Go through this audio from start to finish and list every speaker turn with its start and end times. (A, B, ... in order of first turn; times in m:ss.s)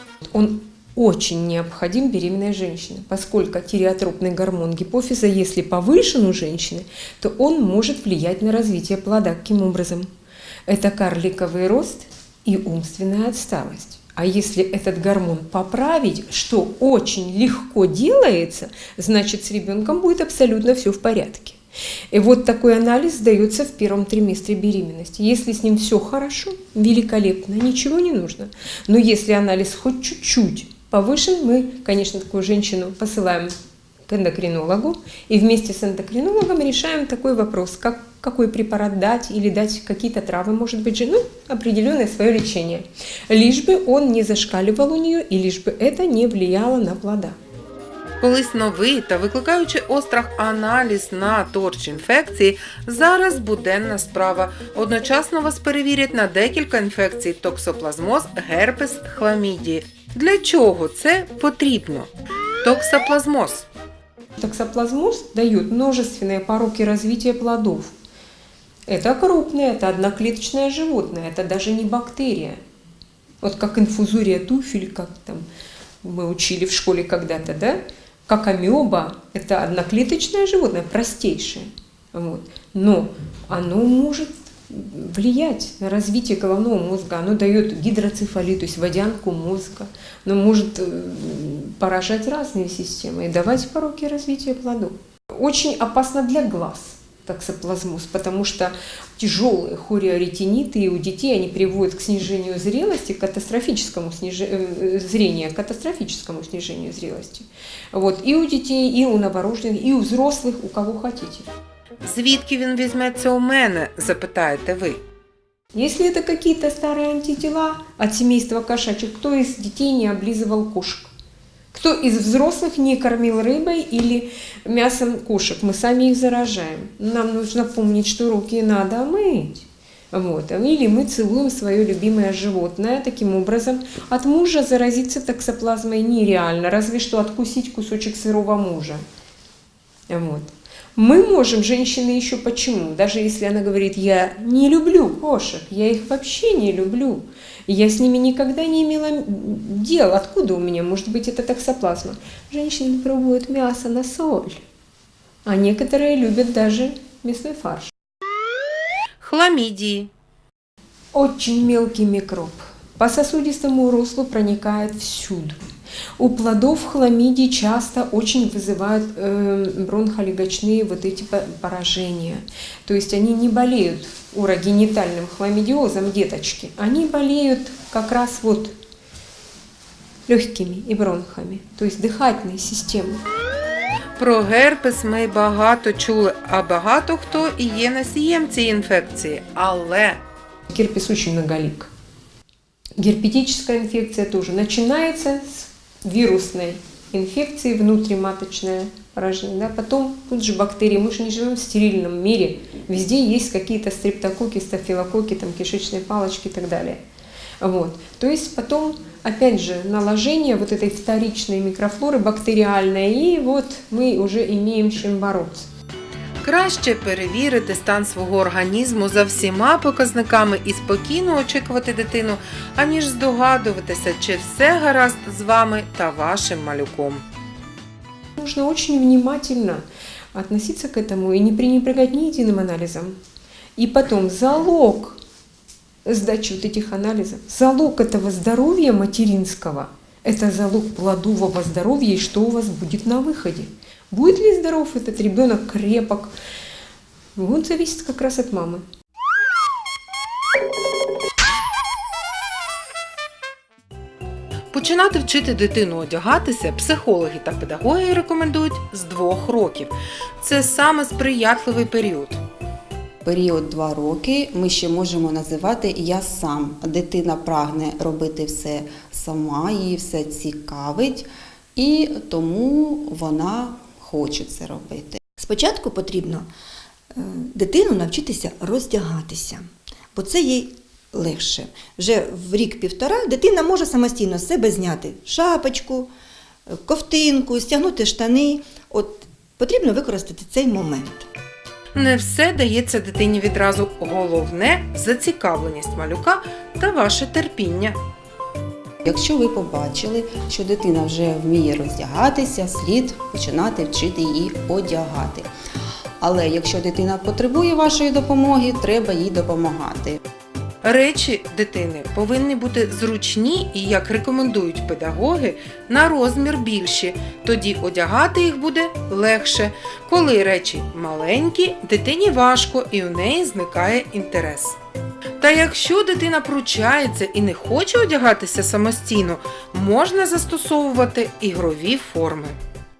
0:00.3-0:10.1 A
0:10.7-0:21.6 A
0:22.1-0:33.5 A
0:34.0-0:47.4 A
0:48.2-1:02.1 B
1:02.6-1:03.7 B
1:04.4-1:07.9 A
1:08.9-1:12.6 A
1:13.4-1:15.4 A
1:16.0-1:51.5 A
1:52.0-1:55.0 B
1:55.7-2:01.1 A
2:01.7-2:19.0 A
2:20.1-2:34.6 A
2:35.4-2:37.9 A
2:39.2-2:40.1 B
2:41.1-2:45.6 A
2:46.2-2:58.7 A
3:00.3-3:03.2 A
3:04.2-3:10.2 B
3:10.7-3:11.9 A
3:13.0-3:27.0 A
3:27.6-3:35.6 A
3:36.4-3:47.2 B
3:48.4-3:49.8 A
3:50.3-3:53.2 A
3:53.8-3:55.2 A
3:56.0-4:06.3 A
4:07.4-4:08.8 A
4:14.7-4:22.4 B
4:23.2-4:35.2 C
4:35.4-4:36.5 D
4:37.1-4:46.1 D
4:46.7-4:51.3 D
4:51.9-4:58.0 B
4:59.0-5:05.5 C
5:06.2-5:10.2 C
5:10.8-5:24.8 B
5:25.4-5:32.6 B